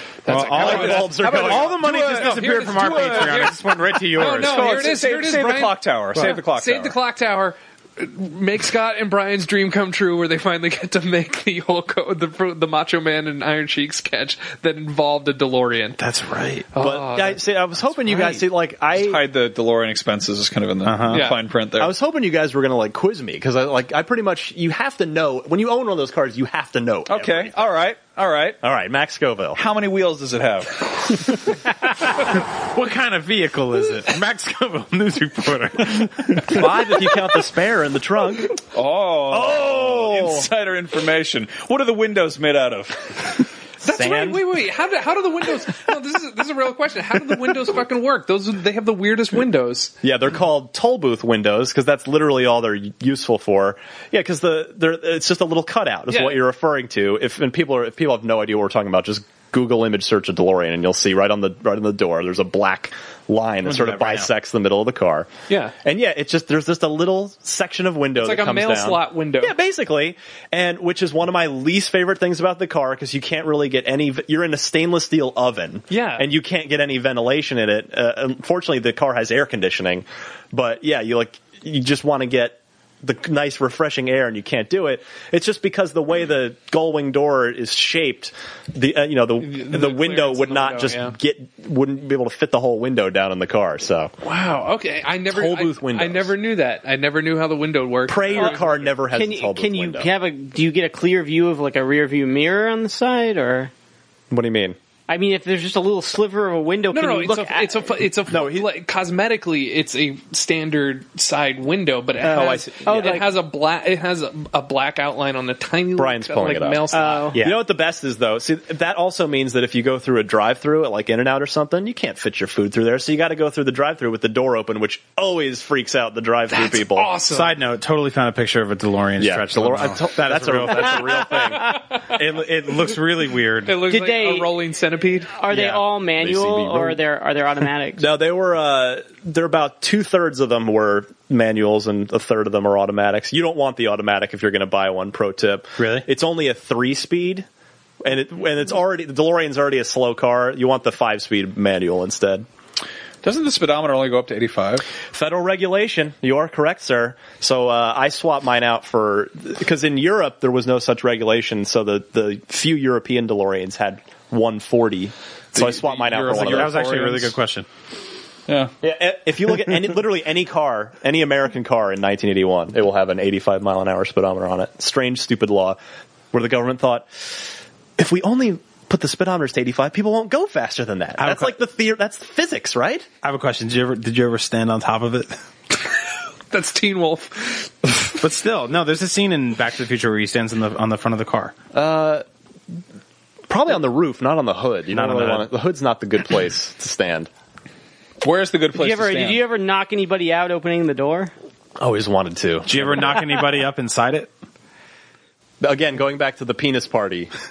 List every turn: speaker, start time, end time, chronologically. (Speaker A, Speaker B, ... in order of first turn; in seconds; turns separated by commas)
Speaker A: 0.3-4.9, Speaker B: 0.3-1.3, Speaker C: 0.5-3.5, Speaker D: 0.5-1.8, Speaker B: 1.8-16.0, Speaker C: 4.2-7.0, Speaker A: 16.0-16.7, Speaker B: 16.7-17.4, Speaker D: 16.8-19.2, Speaker C: 18.1-21.9, Speaker A: 20.8-21.3, Speaker B: 21.1-21.4, Speaker D: 21.8-27.6, Speaker C: 27.1-28.6, Speaker D: 28.6-29.6, Speaker C: 29.6-31.3, Speaker A: 32.3-36.9, Speaker D: 36.4-38.6, Speaker C: 38.7-43.5, Speaker D: 39.3-40.5, Speaker D: 43.8-44.5, Speaker B: 43.8-49.9, Speaker D: 50.0-94.1, Speaker B: 56.1-56.4, Speaker A: 63.6-64.3, Speaker B: 65.5-65.8, Speaker B: 68.2-69.5, Speaker B: 75.9-76.3, Speaker B: 89.4-91.2, Speaker B: 94.2-98.9, Speaker D: 95.3-96.3, Speaker D: 98.1-100.1, Speaker E: 98.4-103.7, Speaker D: 104.3-104.8, Speaker E: 105.1-107.9, Speaker B: 106.9-117.4, Speaker D: 108.3-108.7, Speaker D: 112.2-113.2, Speaker E: 112.4-113.3, Speaker D: 116.0-127.1, Speaker E: 116.9-117.4, Speaker A: 117.3-117.6, Speaker B: 126.5-127.5, Speaker A: 127.3-131.3, Speaker D: 129.2-131.8, Speaker A: 132.1-133.8, Speaker B: 133.7-135.3, Speaker E: 133.9-134.5, Speaker E: 135.3-138.1, Speaker D: 135.5-137.0, Speaker D: 138.0-147.5, Speaker A: 145.8-146.1, Speaker D: 148.0-152.5, Speaker C: 153.2-154.8, Speaker D: 155.1-166.8, Speaker C: 165.5-167.3, Speaker A: 166.3-167.7, Speaker D: 168.8-175.8, Speaker D: 176.3-177.4, Speaker D: 178.0-183.1, Speaker A: 181.2-181.6, Speaker A: 183.2-185.4, Speaker B: 186.5-187.9, Speaker A: 188.2-191.6, Speaker D: 191.7-192.2, Speaker D: 193.5-197.3, Speaker A: 194.9-195.5, Speaker C: 198.2-199.4, Speaker E: 198.7-201.3, Speaker D: 201.8-203.2, Speaker A: 202.7-204.3, Speaker D: 205.6-207.3